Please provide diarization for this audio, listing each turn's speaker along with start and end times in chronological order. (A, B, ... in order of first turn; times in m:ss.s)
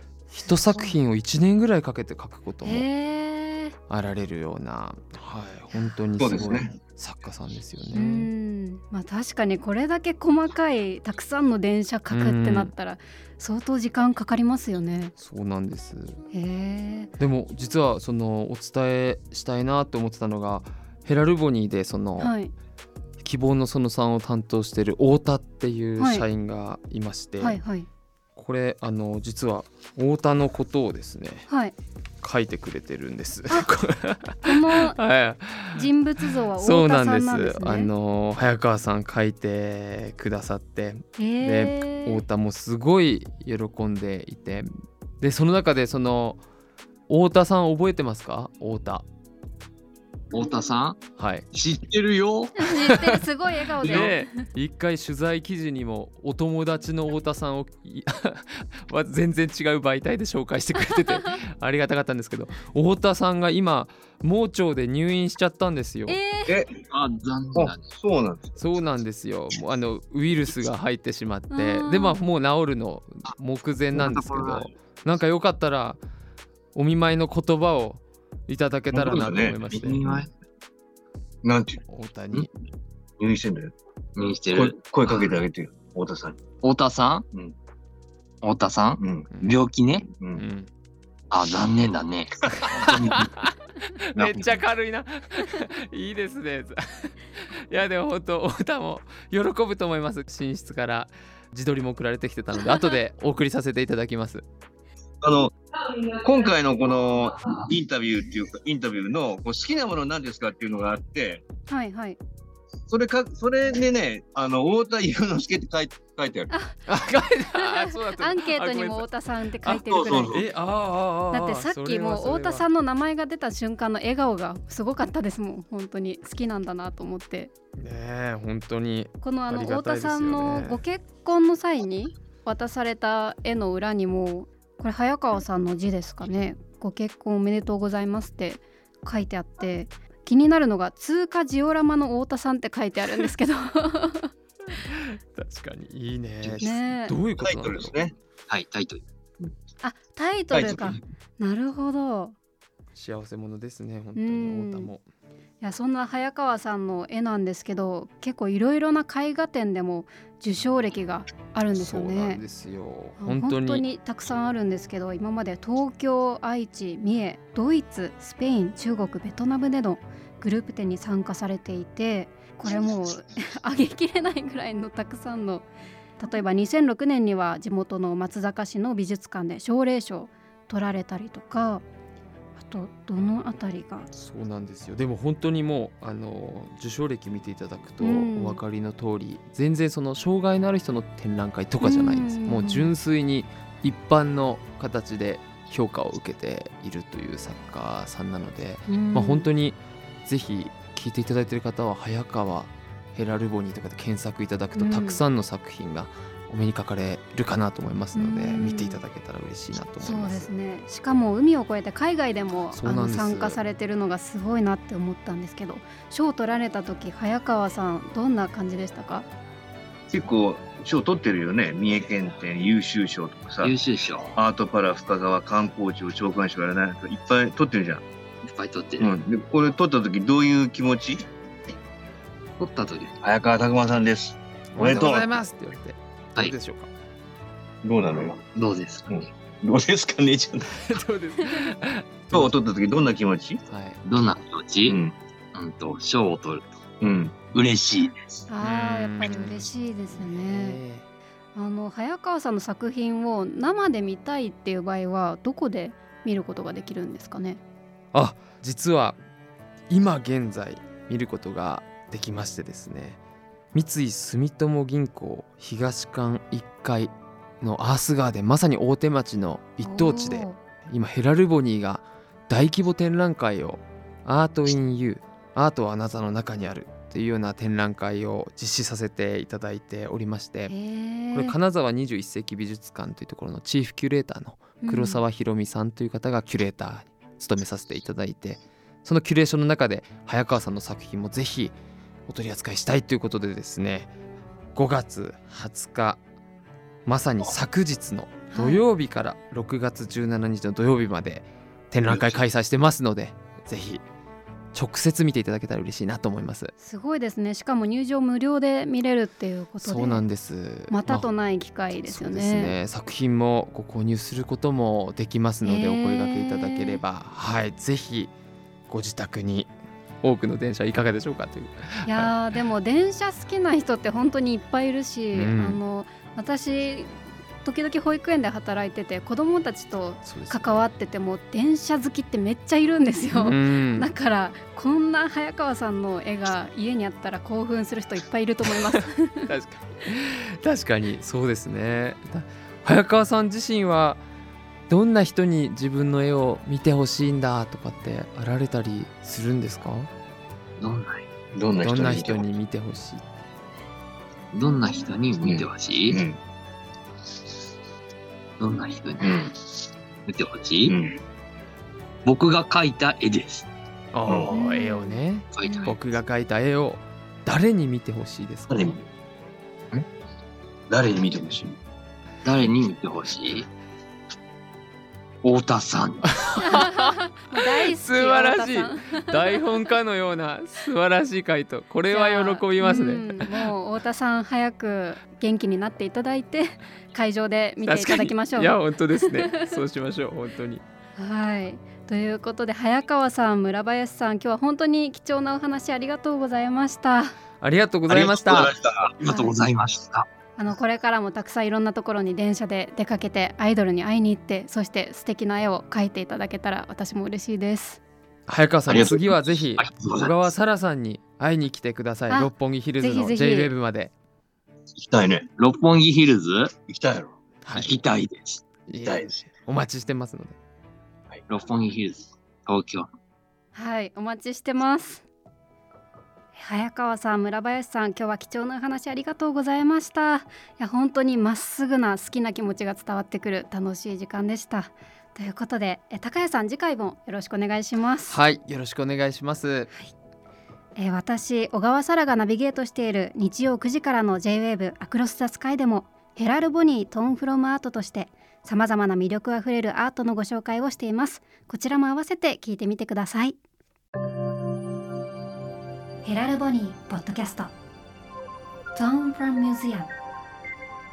0:00.3-0:02.9 A
0:00.4-0:00.9 B
0:02.6-0:03.8 B
0:03.9-0:08.3 A
0:06.2-0:06.7 C
0:07.9-0:15.1 B
0:12.1-0:12.7 A
0:15.2-0:16.2 A
0:16.3-0:17.1 B
0:17.2-0:22.3 A
0:22.2-0:22.5 B
0:23.2-0:27.6 A
0:26.0-0:26.2 B
0:27.4-0:27.9 B
0:28.4-0:31.5 A
0:31.5-0:31.7 B
0:32.2-0:46.4 A
0:34.4-0:35.0 B
0:35.7-0:37.9 B
0:41.2-0:42.2 B
0:47.1-0:49.0 A
0:50.3-0:52.7 D
0:51.2-0:51.5 A
0:52.6-0:54.2 B
0:52.7-0:53.3 A
0:53.8-1:06.2 A
1:06.1-1:06.6 B
1:06.5-1:06.8 C
1:06.8-1:07.9 D
1:07.5-1:08.6 C
1:08.6-1:16.0 A
1:11.5-1:12.2 B
1:13.9-1:14.7 D
1:16.7-1:20.0 A
1:18.9-1:19.6 C
1:19.7-1:20.3 D
1:21.4-1:21.8 C
1:21.9-1:22.5 A
1:23.2-1:23.7 C
1:24.2-1:25.4 D
1:24.5-1:26.4 C
1:26.6-1:27.3 D
1:28.4-1:30.1 D
1:29.0-1:29.3 C
1:30.2-1:30.4 C
1:30.4-1:30.7 A
1:31.3-1:33.3 D
1:32.5-1:32.9 C
1:32.6-1:44.4 A
1:45.2-1:45.5 C
1:46.2-1:51.4 C
1:51.7-1:52.2 B
1:52.9-1:56.5 C
1:56.5-1:56.8 B
1:56.9-1:59.1 A
1:57.5-2:00.4 B
1:59.7-2:00.5 C
2:00.3-2:02.6 A
2:01.3-2:07.5 B
2:07.8-2:10.8 A
2:09.2-2:24.3 B
2:24.7-2:28.1 A
2:26.6-2:27.2 B
2:27.4-2:28.1 C
2:28.5-2:29.5 D
2:29.8-2:32.3 B
2:30.5-2:31.0 C
2:32.9-2:35.0 A
2:34.2-2:34.9 B
2:35.6-2:42.4 B
2:41.7-2:43.8 A
2:43.2-2:55.7 B
2:56.2-3:01.8 B
3:02.6-3:04.1 B
3:04.1-3:30.5 A
3:08.0-3:08.6 B
3:11.8-3:12.9 B
3:18.9-3:19.5 B
3:24.7-3:25.2 B
3:28.1-3:29.0 B
3:30.0-3:39.3 B
3:32.7-3:33.6 A
3:40.1-3:43.7 C
3:43.6-3:44.3 D
3:44.4-3:48.0 C
3:48.4-3:49.1 D
3:49.0-3:51.3 C
3:52.6-3:53.1 D
3:53.2-3:55.3 C
3:54.7-3:56.9 A
3:57.8-3:58.4 C
3:58.5-3:59.1 D
3:59.1-4:00.9 C
4:00.7-4:02.5 A
4:02.3-4:03.6 C
4:03.7-4:04.0 A
4:04.0-4:05.0 D
4:04.8-4:05.1 C
4:05.5-4:06.8 D
4:07.0-4:07.4 C
4:07.5-4:08.2 D
4:08.5-4:10.8 B
4:08.6-4:11.0 A
4:11.5-4:17.6 B
4:18.1-4:19.2 A
4:19.9-4:23.2 A
4:23.7-4:40.7 A
4:29.8-4:30.6 B
4:40.7-4:41.6 B
4:41.3-4:51.8 A
4:44.8-4:45.2 B
4:52.3-4:54.1 A
4:54.7-4:56.2 A
4:57.0-5:04.0 A
4:58.5-4:58.8 B
5:02.1-5:02.4 C
5:04.7-5:06.7 A
5:06.8-5:10.2 B
5:09.8-5:11.3 A
5:10.9-5:12.8 B
5:12.0-5:18.3 A
5:15.6-5:17.0 B
5:18.9-5:22.3 A
5:22.0-5:39.5 B
5:25.3-5:25.8 A
5:30.2-5:30.9 A
5:33.3-5:34.1 A
5:38.8-5:44.2 A
5:44.9-5:50.1 A
5:50.8-5:51.3 D
5:51.5-5:52.5 C
5:51.8-5:53.2 A
5:54.5-5:56.2 D
5:55.4-5:56.4 C
5:58.6-5:59.5 D
5:59.2-5:59.5 C
6:00.2-6:01.0 D
6:00.9-6:01.2 C
6:02.2-6:03.7 D
6:04.1-6:09.0 A
6:04.3-6:04.5 C
6:04.5-6:05.9 B
6:05.5-6:06.0 D
6:08.7-6:09.0 C
6:10.9-6:11.8 C
6:12.4-6:13.7 D
6:15.4-6:16.6 D
6:16.4-6:23.7 A
6:16.6-6:19.6 B
6:22.1-6:29.8 B
6:27.8-6:30.8 A
6:31.2-6:37.4 B
6:37.6-6:38.7 A
6:38.1-6:39.1 C
6:39.2-6:40.3 D
6:39.2-6:39.5 B
6:40.6-6:48.0 B
6:48.5-6:54.1 A
6:48.9-6:49.3 C
6:49.8-6:50.5 D
6:52.3-6:53.7 B
6:55.0-6:55.5 C
6:55.6-6:56.7 D
6:56.9-6:57.3 C
6:57.6-6:58.0 A
6:57.7-6:58.6 D
6:58.9-7:00.6 A
6:59.0-6:59.4 C
7:01.5-7:03.1 D
7:03.7-7:05.3 B
7:06.5-7:18.4 B
7:18.3-7:19.9 A
7:21.0-7:33.6 B
7:36.2-7:37.7 B
7:38.9-7:40.1 B